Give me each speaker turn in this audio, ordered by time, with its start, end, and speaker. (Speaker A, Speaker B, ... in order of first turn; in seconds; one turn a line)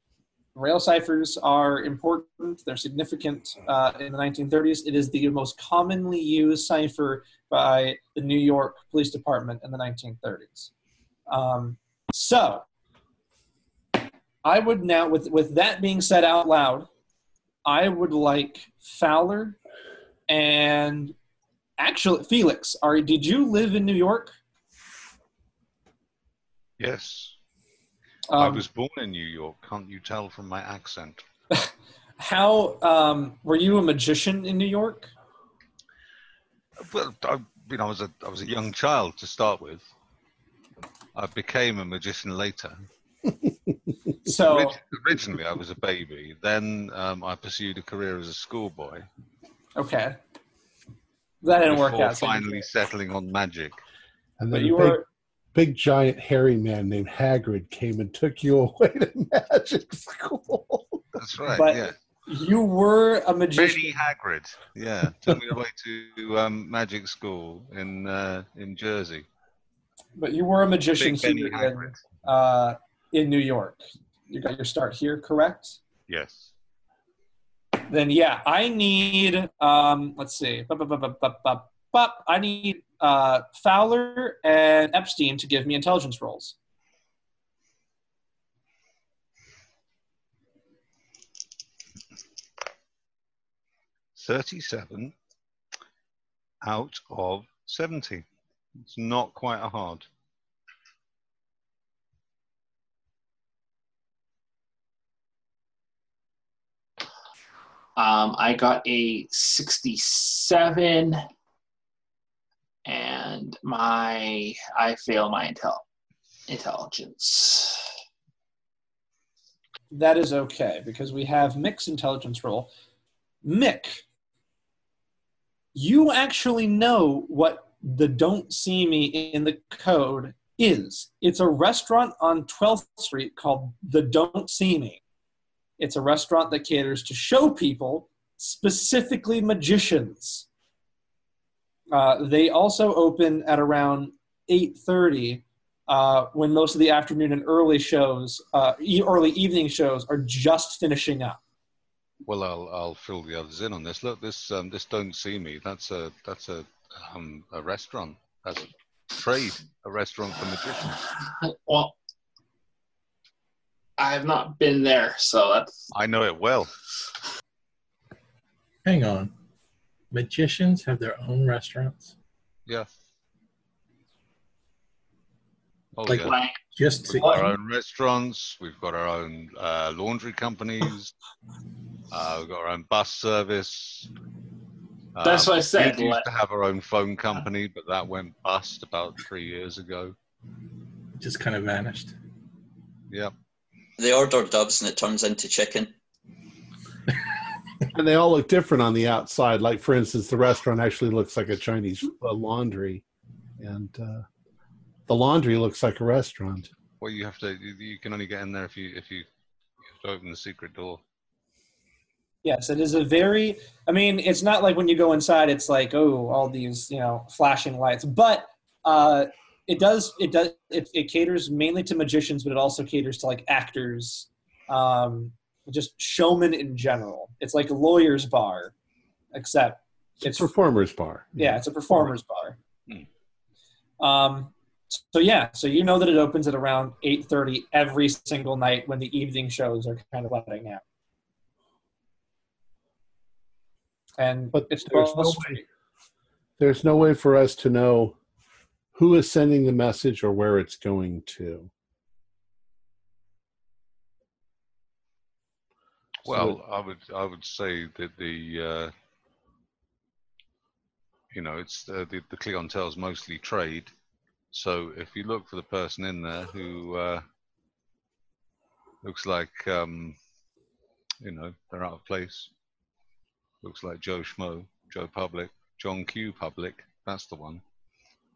Speaker A: 0.5-10.7
Speaker A: 11.3-12.7
Speaker A: 14.4-16.9
Speaker A: 17.6-19.6
Speaker A: 20.3-21.1
Speaker A: 21.8-24.4
Speaker B: 26.8-27.4
Speaker A: 28.3-28.6
Speaker B: 28.4-31.2
Speaker A: 31.5-35.1
Speaker B: 36.8-39.9
Speaker B: 41.1-42.9
Speaker A: 44.2-44.8
Speaker B: 44.5-49.1
Speaker A: 49.8-50.2
Speaker A: 51.4-52.7
Speaker B: 51.6-53.8
Speaker C: 54.4-55.0
Speaker A: 54.5-55.0
Speaker C: 55.5-61.0
Speaker B: 61.1-61.9
Speaker A: 61.5-64.0
Speaker B: 63.6-69.3
Speaker A: 70.2-75.8
Speaker B: 71.0-72.0
Speaker B: 76.1-76.5
Speaker A: 77.9-86.5
Speaker B: 94.2-95.1
Speaker B: 96.6-98.2
Speaker B: 98.8-100.0
Speaker D: 108.0-111.2
Speaker D: 112.9-115.8
Speaker D: 116.5-117.8
Speaker A: 119.9-122.7
Speaker A: 123.4-124.0
Speaker A: 125.8-135.0
Speaker A: 135.8-140.4
Speaker A: 141.9-151.4
Speaker B: 152.2-161.1
Speaker D: 161.2-161.9
Speaker D: 164.0-165.7
Speaker B: 165.9-166.7
Speaker E: 168.8-169.3
Speaker E: 170.1-172.1
Speaker B: 175.9-176.4
Speaker E: 176.1-177.6
Speaker D: 176.1-177.4
Speaker B: 177.1-181.1
Speaker B: 182.1-184.1
Speaker B: 185.1-190.1
Speaker D: 185.2-186.2
Speaker E: 191.2-192.1
Speaker F: 194.0-195.9
Speaker C: 197.9-203.0
Speaker C: 203.6-204.2
Speaker C: 205.1-206.7
Speaker B: 207.0-209.2
Speaker B: 209.9-211.0
Speaker A: 212.4-228.7
Speaker A: 229.3-230.5
Speaker C: 230.2-231.6
Speaker A: 231.4-232.6
Speaker A: 234.0-240.8
Speaker A: 244.2-245.6
Speaker C: 244.5-245.6
Speaker C: 246.6-248.2
Speaker C: 248.9-251.7
Speaker C: 256.2-256.6
Speaker B: 256.2-258.9
Speaker B: 261.3-263.9
Speaker B: 264.5-267.2
Speaker B: 269.0-270.2
Speaker B: 271.2-272.5
Speaker B: 273.6-277.6